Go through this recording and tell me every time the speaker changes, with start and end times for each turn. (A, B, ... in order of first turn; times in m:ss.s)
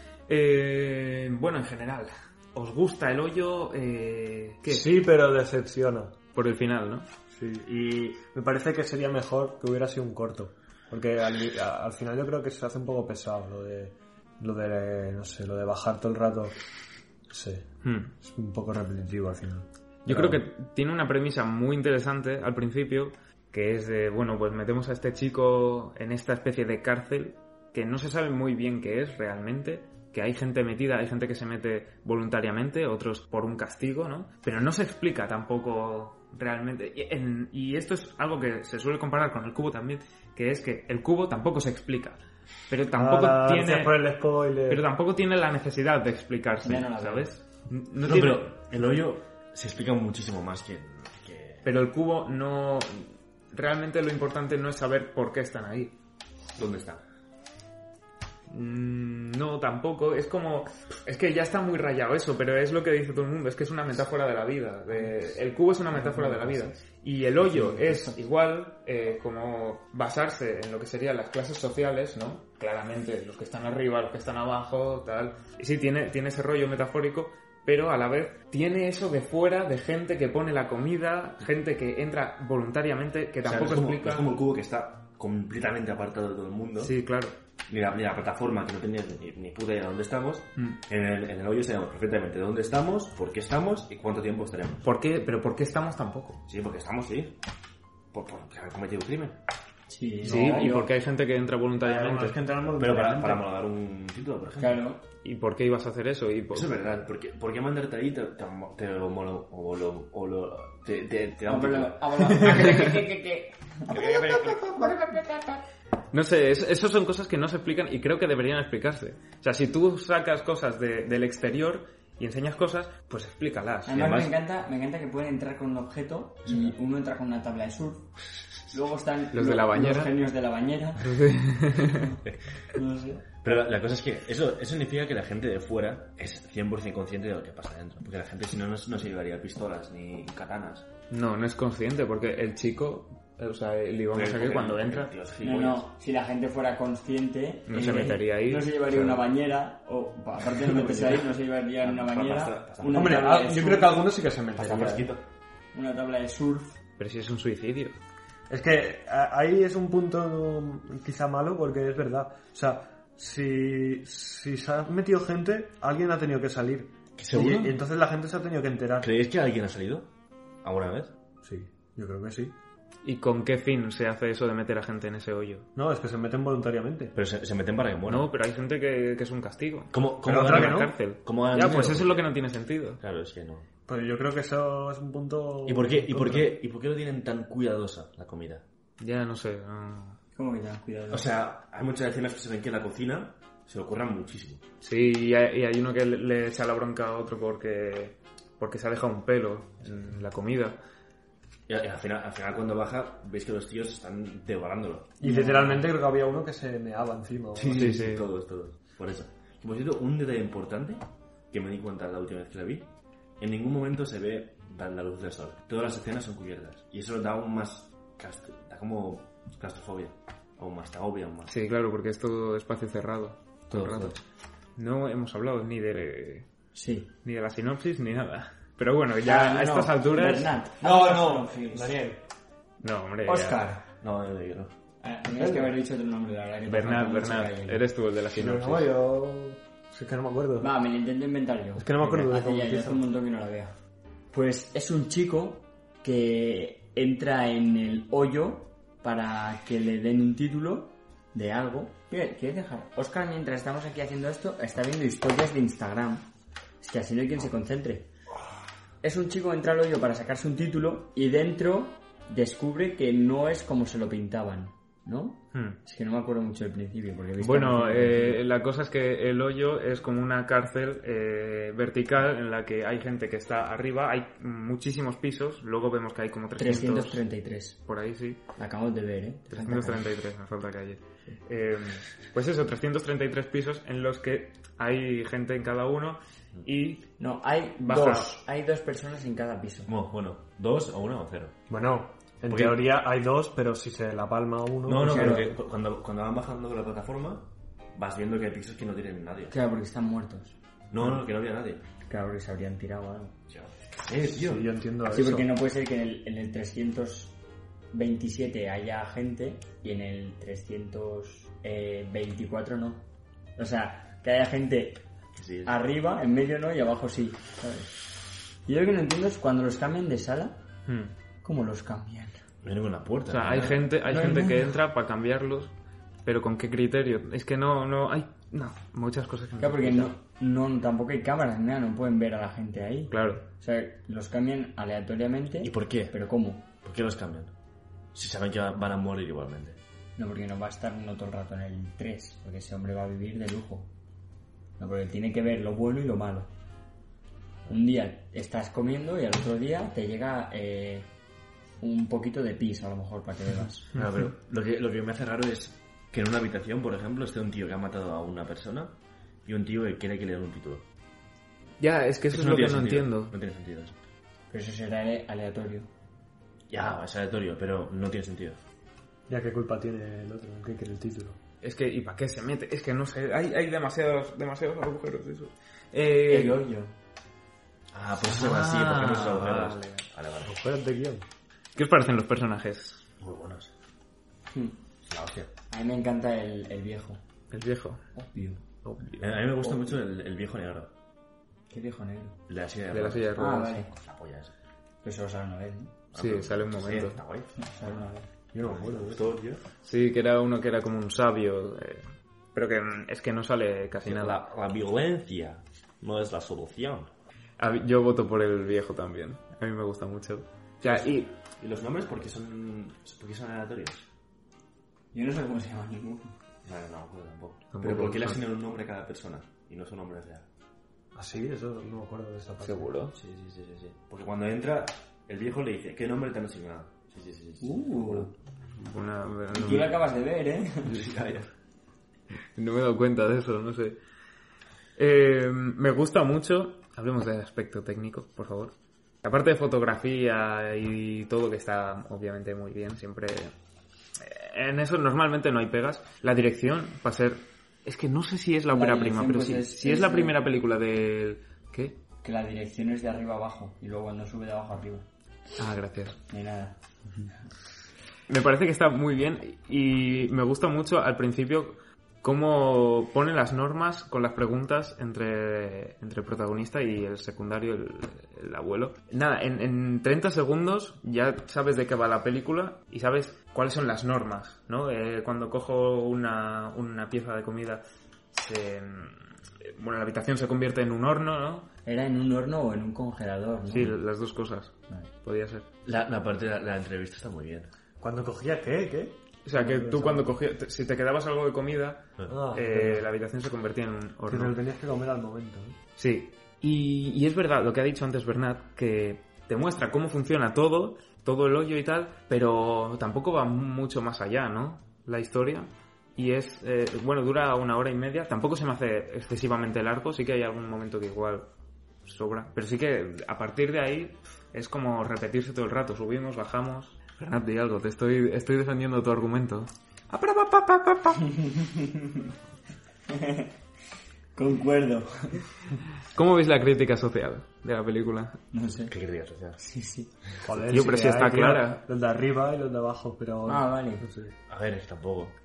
0:00.3-0:04.9 A
0:04.6-0:06.1 B
0:06.3-0:07.0 A
0:07.3-0:16.5 B
0:17.3-0:17.7 B
0:17.8-0:18.1 A
0:18.2-0:20.4 B
0:20.0-0:44.1 A
0:42.9-0:44.8 B
0:44.6-0:48.5 A
0:46.6-0:47.3 C
0:48.0-0:51.6 D
0:51.6-0:55.9 A
0:56.6-0:57.0 D
0:58.5-1:24.4 A
1:06.0-1:06.7 C
1:07.5-1:08.1 C
1:23.4-1:26.9 D
1:26.8-1:27.4 A
1:27.7-1:34.8 D
1:34.8-1:36.4 A
1:36.5-1:37.4 D
1:38.1-1:39.4 D
1:39.9-1:40.8 C
1:40.2-1:40.9 B
1:40.2-1:42.4 A
1:41.8-1:43.4 B
1:42.8-1:44.8 D
1:44.6-1:45.0 C
1:45.2-1:46.9 A
1:46.5-1:52.1 D
1:51.4-1:54.0 C
1:52.4-1:52.9 A
1:53.9-1:54.8 A
1:54.6-1:54.9 B
1:54.7-1:55.4 C
1:56.1-2:04.0 A
2:03.8-2:08.1 C
2:03.9-2:04.3 D
2:06.5-2:06.7 D
2:08.7-2:11.2 C
2:09.3-2:10.1 A
2:11.0-2:12.2 A
2:12.7-2:13.3 C
2:13.4-2:20.9 D
2:21.1-2:25.1 A
2:24.1-2:25.9 D
2:25.4-2:34.1 C
2:27.7-2:29.2 A
2:30.7-2:31.3 D
2:31.8-2:33.2 D
2:32.9-2:35.1 B
2:34.6-2:35.2 D
2:35.7-2:36.8 C
2:37.0-2:38.0 A
2:38.5-2:49.1 B
2:47.2-2:47.7 D
2:49.0-2:50.1 D
2:50.6-2:51.1 D
2:51.4-2:52.5 B
2:53.0-2:55.7 A
2:55.8-2:57.1 B
2:57.1-2:58.3 D
2:58.1-3:03.0 A
2:59.9-3:02.2 D
3:00.2-3:00.9 B
3:03.0-3:03.6 D
3:03.9-3:06.6 B
3:05.6-3:08.6 D
3:09.0-3:10.2 A
3:10.3-3:11.3 C
3:11.1-3:14.6 D
3:14.8-3:20.8 A
3:21.7-3:25.1 D
3:25.2-3:28.0 B
3:25.2-3:25.9 C
3:27.5-3:41.5 D
3:27.7-3:28.3 A
3:41.5-3:44.2 A
3:43.7-3:44.2 D
3:44.8-3:46.5 A
3:46.7-3:47.1 C
3:47.2-3:50.6 A
3:49.2-3:52.0 C
3:50.8-3:52.2 B
3:52.8-3:53.7 A
3:53.2-3:53.8 C
3:54.0-3:54.7 D
3:55.0-3:57.8 C
3:55.3-3:55.7 B
3:56.7-3:58.9 A
3:58.3-4:00.7 B
4:00.6-4:03.7 C
4:01.8-4:03.0 B
4:04.3-4:16.3 C
4:16.8-4:18.1 C
4:19.0-4:28.4 C
4:25.5-4:25.8 A
4:27.4-4:37.2 A
4:36.6-4:37.8 C
4:37.8-4:38.4 A
4:38.6-4:40.1 C
4:39.5-4:47.1 A
4:47.2-4:49.9 C
4:47.8-4:48.4 A
4:49.9-4:51.6 D
4:51.7-4:55.5 B
4:52.5-4:52.8 D
4:54.8-4:59.5 D
4:55.0-4:55.6 C
4:59.5-5:00.6 C
5:00.9-5:01.8 D
5:02.1-5:03.3 C
5:03.5-5:04.7 D
5:04.2-5:05.5 B
5:05.1-5:07.4 C
5:07.9-5:13.0 C
5:13.6-5:15.0 C
5:15.3-5:15.7 D
5:15.6-5:17.9 C
5:18.6-5:20.6 C
5:20.9-5:21.1 A
5:21.4-5:22.4 C
5:22.6-5:23.8 D
5:23.3-5:25.7 A
5:24.0-5:24.7 C
5:26.2-5:30.2 A
5:29.6-5:36.6 C
5:33.1-5:33.4 A
5:35.6-5:36.1 D
5:36.8-5:37.5 D
5:38.1-5:39.8 D
5:40.2-5:43.9 C
5:44.8-5:46.5 C
5:47.7-5:51.1 C
5:51.8-5:53.9 C
5:53.9-6:00.8 D
6:01.8-6:03.3 A
6:02.3-6:04.0 D
6:04.5-6:05.9 C
6:06.7-6:08.6 D
6:09.3-6:11.4 B
6:11.6-6:16.6 A
6:16.2-6:16.9 C
6:17.9-6:20.5 D
6:18.2-6:20.1 A
6:20.4-6:21.2 B
6:21.8-6:23.0 A
6:23.2-6:23.7 D
6:24.5-6:24.8 C
6:25.0-6:25.5 D
6:25.7-6:27.2 C
6:27.5-6:28.0 A
6:28.1-6:28.6 C
6:28.8-6:29.1 B
6:29.2-6:30.9 D
6:29.6-6:30.0 C
6:31.7-6:32.4 C
6:32.5-6:34.5 D
6:32.9-6:33.8 A
6:33.4-6:33.9 C
6:35.0-6:35.9 C
6:36.1-6:37.5 D
6:36.1-6:37.2 A
6:37.6-6:38.3 C
6:38.5-6:39.3 B
6:38.6-6:39.6 D
6:39.8-6:44.4 A
6:44.0-6:47.1 D
6:47.6-6:51.3 A
6:50.8-6:54.0 D
6:55.1-6:56.3 C
6:56.6-7:00.4 D
6:57.7-6:58.4 A
7:01.1-7:02.9 B
7:02.6-7:03.1 A
7:03.1-7:08.3 D
7:07.6-7:08.3 C
7:08.8-7:10.0 A
7:09.5-7:10.9 C
7:10.8-7:11.5 D
7:12.6-7:14.0 A
7:15.0-7:23.5 A
7:24.2-7:32.0 A
7:28.7-7:30.4 C
7:32.2-7:35.0 C
7:35.6-7:36.2 A
7:36.3-7:36.8 C
7:38.3-7:57.8 A
7:58.3-8:01.7 A
8:01.8-8:03.9 C
8:03.7-8:05.7 A
8:05.8-8:07.7 D
8:08.0-8:10.3 B
8:09.4-8:14.6 A
8:12.3-8:13.1 B
8:14.3-8:15.8 B
8:16.0-8:31.5 A
8:32.0-8:41.4 A
8:41.4-8:42.2 C
8:43.1-8:43.5 C
8:44.3-8:45.5 C
8:46.1-8:48.4 A
8:48.5-8:48.9 C
8:48.9-8:49.6 D
8:49.6-8:50.1 C
8:50.4-8:54.3 B
8:50.6-8:51.8 A
8:53.4-8:54.0 C
8:54.5-8:55.3 D